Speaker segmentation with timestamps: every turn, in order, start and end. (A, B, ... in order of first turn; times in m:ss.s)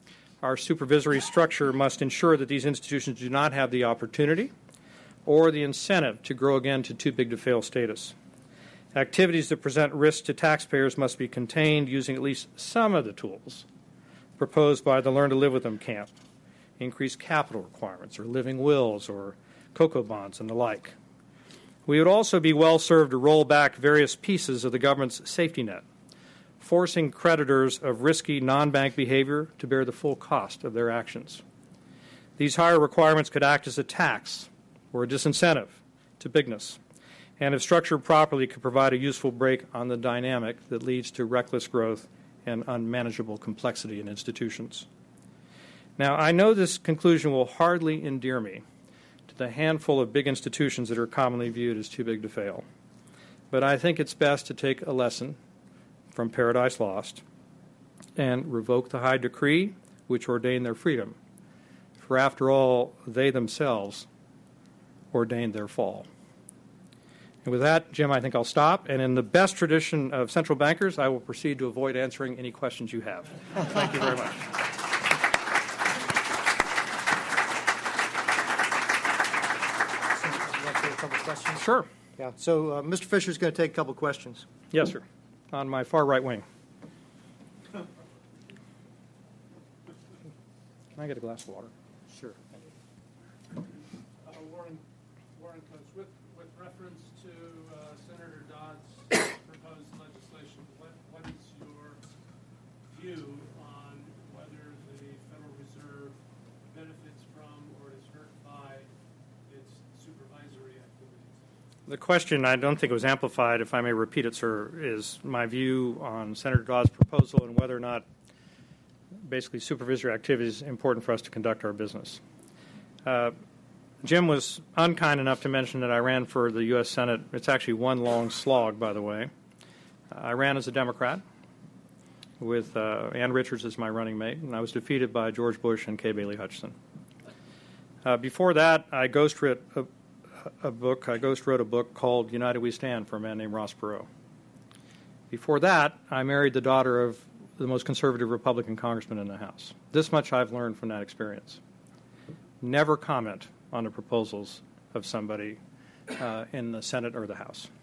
0:00.4-0:04.5 A
0:05.2-0:08.2 A
0:08.9-0:13.7 A
0:14.4-0:16.1 A
0:16.8-0:21.0 A
0:21.9-0:25.8 A
0:26.6-0:31.4 A
0:32.4-0:36.8 A
0:37.4-0:44.9 A
0:46.0-0:48.6 A
0:49.3-0:52.6 A
0:53.5-0:55.4 A
0:56.1-0:57.2 A
0:58.2-1:01.2 A
1:02.0-1:04.1 A
1:05.1-1:06.1 A
1:07.4-1:14.6 A
1:20.4-1:21.6 B
1:21.5-1:21.9 A
1:22.2-1:24.4 B
1:24.7-1:26.4 A
1:31.0-1:31.7 A
1:34.2-1:34.8 C
1:35.4-1:42.0 C
1:42.9-1:48.9 C
1:49.5-1:51.4 C
1:51.9-1:58.1 A
1:59.2-2:02.2 A
2:03.0-2:03.4 A
2:04.0-2:09.3 A
2:10.1-2:11.2 A
2:12.4-2:16.8 A
2:18.0-2:19.9 A
2:20.4-2:24.1 A
2:25.3-2:31.6 A
2:32.6-2:35.6 A
2:36.1-2:37.7 A